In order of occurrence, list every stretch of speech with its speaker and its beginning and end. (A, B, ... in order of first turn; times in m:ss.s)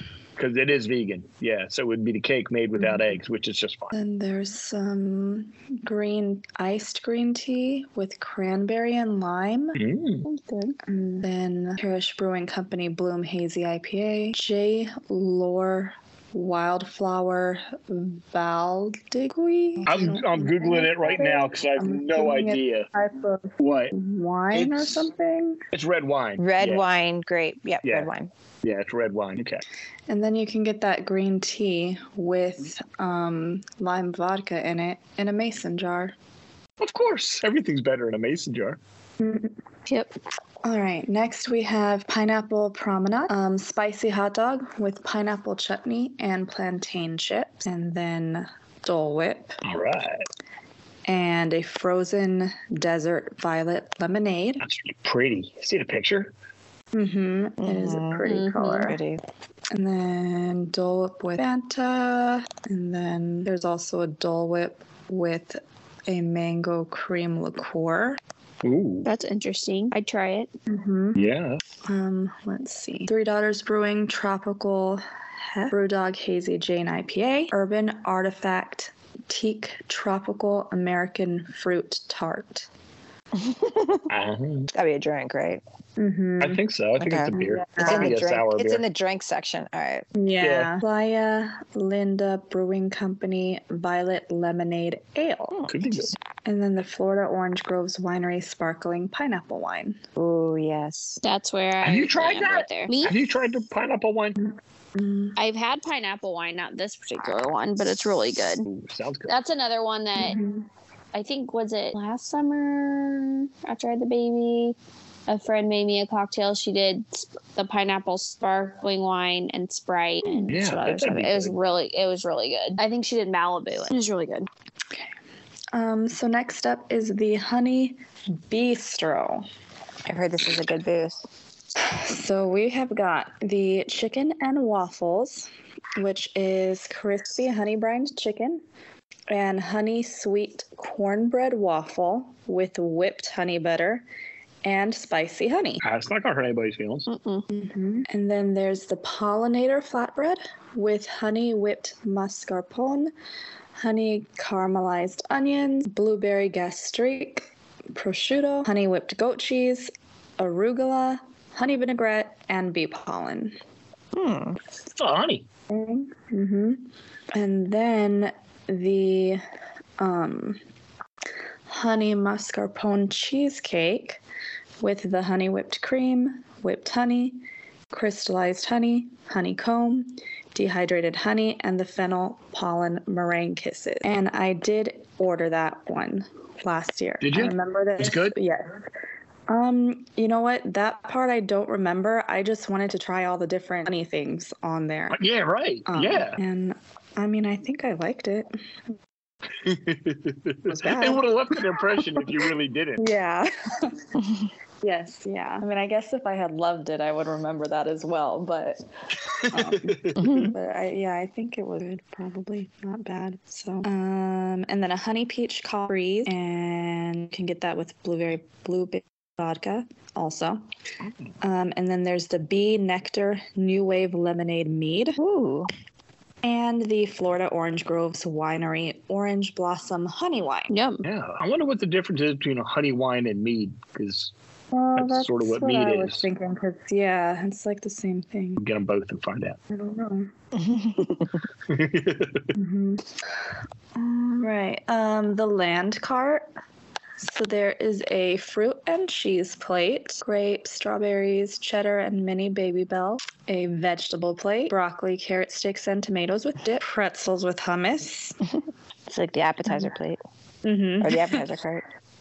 0:00.4-0:03.9 A
0:02.8-0:03.1 B
0:03.9-0:09.8 B
0:09.8-0:10.3 A
0:10.2-0:10.8 C
0:10.8-0:25.6 B
0:19.8-0:22.9 A
0:23.6-0:23.9 A
0:24.5-0:25.1 A
0:25.7-0:26.8 A
0:26.4-0:28.3 D
0:27.8-0:28.1 A
0:28.6-0:29.6 A
0:30.1-0:36.1 B
0:36.8-0:38.8 A
0:39.2-0:39.5 B
0:39.9-0:40.1 C
0:40.6-0:49.6 B
0:49.6-0:50.2 A
0:51.1-0:54.6 B
0:54.6-0:56.3 A
0:56.9-0:59.0 B
0:57.6-0:59.2 D
0:58.2-0:58.9 C
0:59.7-1:08.2 B
1:08.6-1:09.1 A
1:09.0-1:10.5 C
1:10.7-1:11.2 B
1:11.2-1:11.6 A
1:11.8-1:22.7 B
1:23.3-1:24.1 D
1:24.1-1:24.7 A
1:24.7-1:25.6 D
1:26.0-1:26.6 B
1:26.4-1:28.8 A
1:27.0-1:30.0 D
1:27.3-1:28.1 B
1:30.2-1:35.6 B
1:30.4-1:30.8 A
1:35.5-1:36.1 D
1:35.7-1:36.1 A
1:36.4-1:40.0 B
1:40.2-1:41.2 D
1:41.2-1:43.1 C
1:41.8-1:44.4 A
1:44.9-1:45.3 B
1:45.4-1:48.6 C
1:48.6-1:49.3 A
1:49.3-1:50.4 C
1:50.2-1:50.6 B
1:51.1-1:54.8 C
1:55.3-2:04.5 C
2:00.5-2:01.5 A
2:05.7-2:09.4 B
2:10.0-2:11.2 D
2:11.8-2:18.6 B
2:19.3-2:24.0 B
2:24.6-2:25.8 B
2:25.8-2:27.1 A
2:27.1-2:27.4 C
2:27.5-2:33.1 B
2:33.8-2:43.6 B
2:44.1-2:44.6 D
2:44.9-2:45.4 A
2:45.7-2:49.4 B
2:50.0-2:50.6 B
2:51.7-2:54.2 B
2:54.8-3:08.8 B
3:07.2-3:08.3 A
3:09.5-3:15.2 B
3:15.1-3:16.4 A
3:15.9-3:18.6 B
3:19.6-3:23.1 A
3:20.7-3:22.4 B
3:23.0-3:24.1 B
3:24.8-3:28.8 B
3:29.4-3:30.2 A
3:29.5-3:40.6 B
3:30.2-3:30.5 D
3:41.4-3:45.2 B
3:45.2-3:45.7 D
3:46.4-3:50.7 B
3:50.7-3:51.0 C
3:51.0-3:54.3 A
3:54.7-3:58.6 B
3:55.0-3:56.2 A
3:58.6-3:59.6 A
3:59.7-4:00.3 B
4:00.5-4:01.4 D
4:01.7-4:02.5 A
4:02.5-4:03.4 B
4:03.9-4:06.5 B
4:07.2-4:18.4 B
4:19.1-4:20.2 D
4:20.6-4:21.4 B
4:21.0-4:21.8 D